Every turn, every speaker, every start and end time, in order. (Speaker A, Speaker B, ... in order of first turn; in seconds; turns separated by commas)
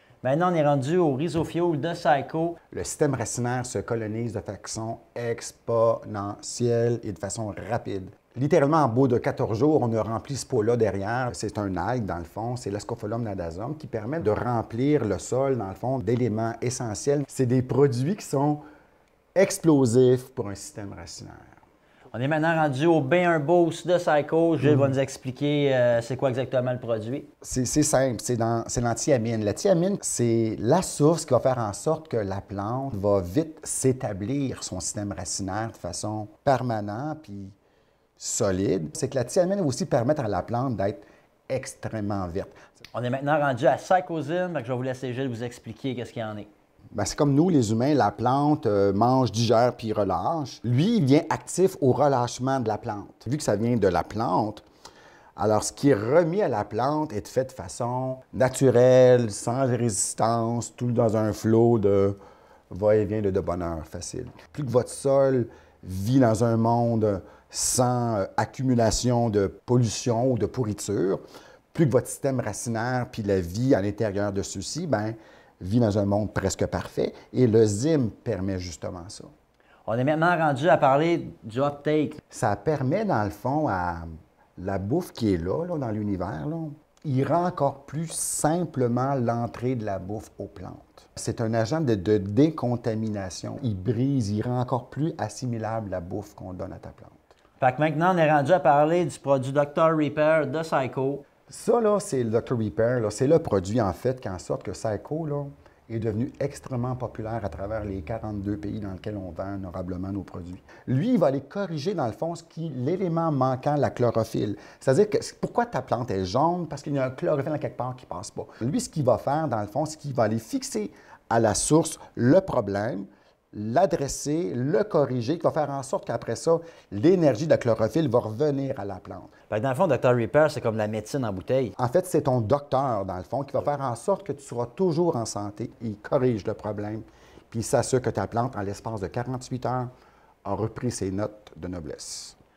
Speaker A: 0.2-2.6, Speaker B: 2.7-18.6, Speaker B: 19.3-21.5, Speaker A: 22.1-27.3, Speaker B: 27.4-37.5, Speaker B: 38.2-42.6, Speaker A: 42.9-46.5, Speaker B: 46.9-54.6, Speaker B: 55.4-62.2, Speaker B: 62.7-71.2, Speaker B: 71.7-79.3, Speaker A: 79.9-82.2, Speaker B: 82.3-97.2, Speaker A: 97.6-101.2, Speaker B: 101.5-129.3, Speaker A: 129.5-131.7, Speaker B: 131.8-139.9, Speaker B: 140.4-142.3